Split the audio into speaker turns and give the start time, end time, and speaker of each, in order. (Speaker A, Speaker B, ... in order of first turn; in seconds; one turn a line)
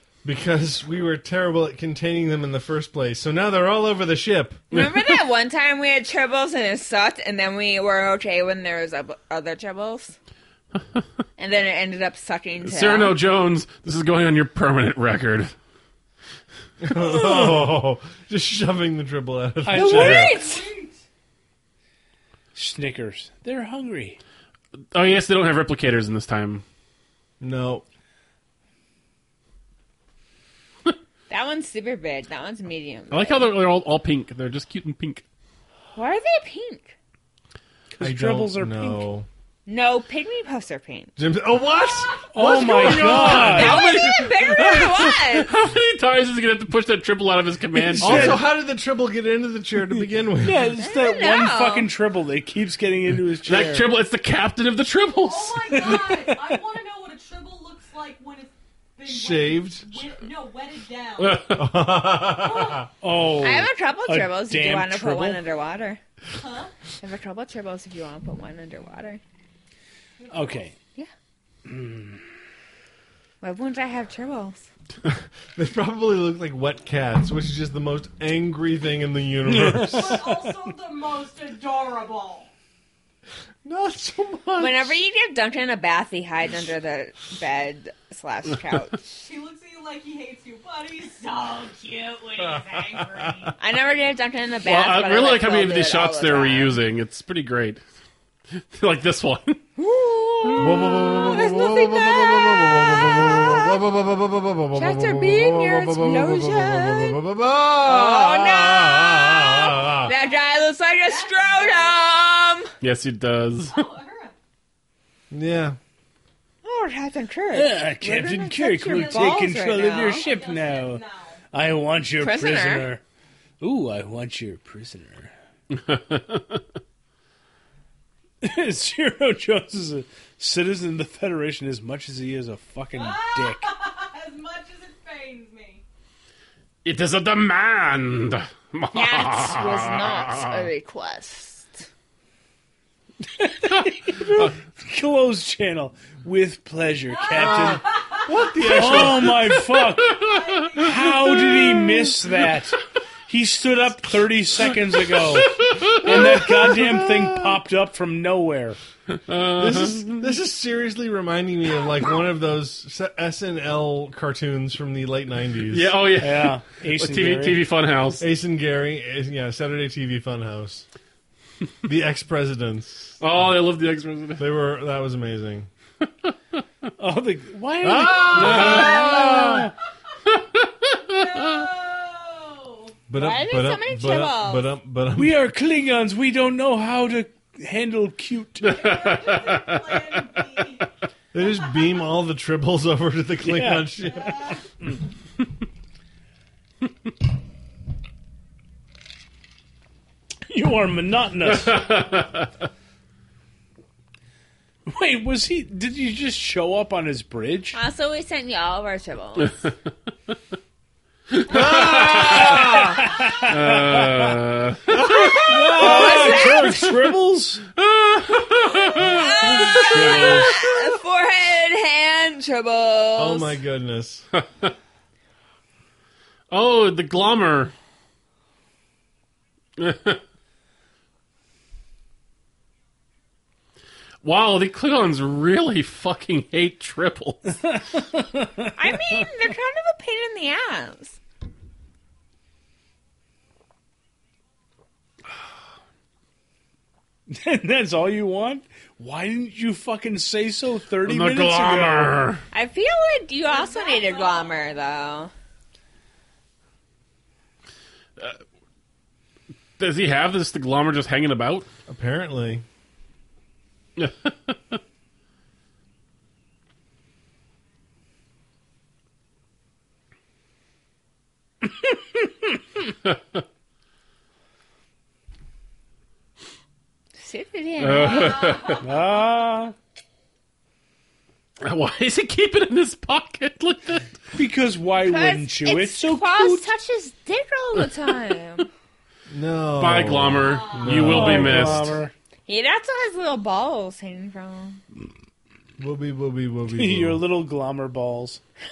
Speaker A: 0.2-4.6
Speaker B: 4.7-5.1
Speaker C: 4.7-10.2
Speaker C: 11.4-13.2
Speaker B: 12.6-15.5
Speaker A: 16.8-20.3
Speaker D: 16.9-17.8
Speaker D: 19.6-20.4
Speaker C: 19.7-20.7
Speaker E: 20.2-21.0
Speaker D: 22.5-24.2
Speaker B: 24.9-26.6
Speaker A: 27.4-27.8
Speaker C: 31.3-33.5
Speaker B: 33.1-35.2
Speaker C: 35.9-36.9
Speaker D: 37.9-39.1
Speaker A: 38.0-39.3
Speaker C: 39.6-41.1
Speaker A: 41.2-43.9
Speaker D: 42.3-43.9
Speaker B: 42.8-48.4
Speaker C: 42.8-45.5
Speaker D: 47.7-48.5
Speaker A: 48.0-50.7
Speaker D: 50.4-53.9
Speaker C: 50.8-51.9
Speaker B: 53.4-56.0
Speaker E: 55.1-61.6
Speaker D: 55.7-56.6
Speaker A: 59.0-60.0
Speaker B: 61.2-61.6
Speaker A: 61.5-62.9
Speaker E: 62.3-62.9
Speaker D: 63.0-65.4
Speaker C: 63.4-66.0
Speaker E: 66.3-66.7
Speaker C: 67.0-69.2
Speaker E: 70.2-70.7
Speaker D: 70.3-70.7
Speaker D: 71.7-72.2
Speaker C: 73.4-74.7
Speaker A: 75.1-80.2
Speaker D: 79.4-80.6
Speaker E: 80.0-82.5
Speaker A: 83.6-85.0
Speaker C: 84.6-89.2
Speaker E: 89.2-93.5
Speaker A: 92.4-93.5
Speaker C: 93.6-96.7
Speaker B: 94.6-97.8
Speaker B: 98.6-99.7
Speaker C: 99.8-103.8
Speaker A: 100.6-110.1
Speaker C: 104.7-107.2
Speaker C: 107.8-112.7
Speaker E: 111.0-112.0
Speaker B: 112.8-113.8
Speaker E: 113.7-114.3
Speaker A: 115.3-115.8
Speaker C: 116.6-120.3
Speaker D: 117.5-123.0
Speaker E: 118.8-121.4
Speaker C: 122.2-122.9
Speaker D: 123.6-125.3
Speaker B: 125.7-126.6
Speaker D: 128.4-133.7
Speaker E: 132.9-135.8
Speaker B: 136.8-140.7
Speaker C: 138.9-141.9
Speaker D: 143.2-147.8
Speaker E: 147.1-148.4
Speaker A: 147.3-149.5
Speaker D: 148.6-150.2
Speaker E: 150.1-151.6
Speaker B: 150.2-150.8
Speaker D: 150.8-158.8
Speaker B: 151.5-152.5
Speaker B: 154.6-156.4
Speaker A: 156.0-157.6
Speaker B: 159.3-160.3
Speaker A: 159.6-165.9
Speaker B: 165.7-168.3
Speaker D: 166.2-167.6
Speaker A: 168.2-170.8
Speaker A: 171.8-173.2
Speaker B: 173.2-174.4
Speaker A: 174.4-175.7
Speaker D: 177.0-179.7
Speaker A: 177.8-179.7
Speaker E: 178.3-179.3
Speaker B: 178.4-179.2
Speaker B: 180.3-181.7
Speaker E: 180.9-182.9
Speaker A: 183.1-185.4
Speaker C: 183.2-184.7
Speaker D: 185.1-188.8
Speaker E: 188.7-190.9
Speaker B: 188.7-189.9
Speaker A: 191.3-194.4
Speaker D: 193.4-194.9
Speaker E: 194.0-194.7
Speaker D: 200.5-201.9
Speaker B: 201.5-202.5
Speaker D: 204.9-207.8
Speaker C: 207.7-209.7
Speaker B: 211.3-212.8
Speaker A: 211.5-213.1
Speaker E: 211.5-212.1
Speaker D: 212.1-214.4
Speaker B: 213.4-215.2
Speaker C: 215.0-216.9
Speaker A: 215.2-216.2
Speaker D: 215.3-217.6
Speaker B: 217.8-220.4
Speaker C: 219.0-223.6
Speaker D: 219.7-220.6
Speaker A: 223.2-224.3
Speaker B: 224.3-224.7
Speaker B: 226.5-227.7
Speaker B: 229.8-230.2
Speaker B: 234.2-237.6
Speaker D: 237.6-239.2
Speaker C: 238.8-241.2
Speaker D: 247.3-252.2
Speaker B: 251.0-252.4
Speaker C: 252.5-255.3
Speaker E: 253.4-254.7
Speaker B: 259.8-261.7
Speaker A: 261.9-262.6
Speaker B: 264.0-264.8
Speaker D: 271.6-272.6
Speaker C: 277.2-278.5
Speaker B: 277.8-278.8
Speaker E: 278.2-278.8
Speaker D: 278.8-279.7
Speaker B: 281.6-284.1
Speaker D: 284.3-286.7
Speaker C: 285.0-288.7
Speaker A: 289.3-291.8
Speaker B: 289.8-292.0
Speaker E: 290.4-291.0
Speaker D: 290.9-292.1
Speaker C: 292.5-294.8
Speaker A: 295.8-297.2
Speaker D: 296.8-298.4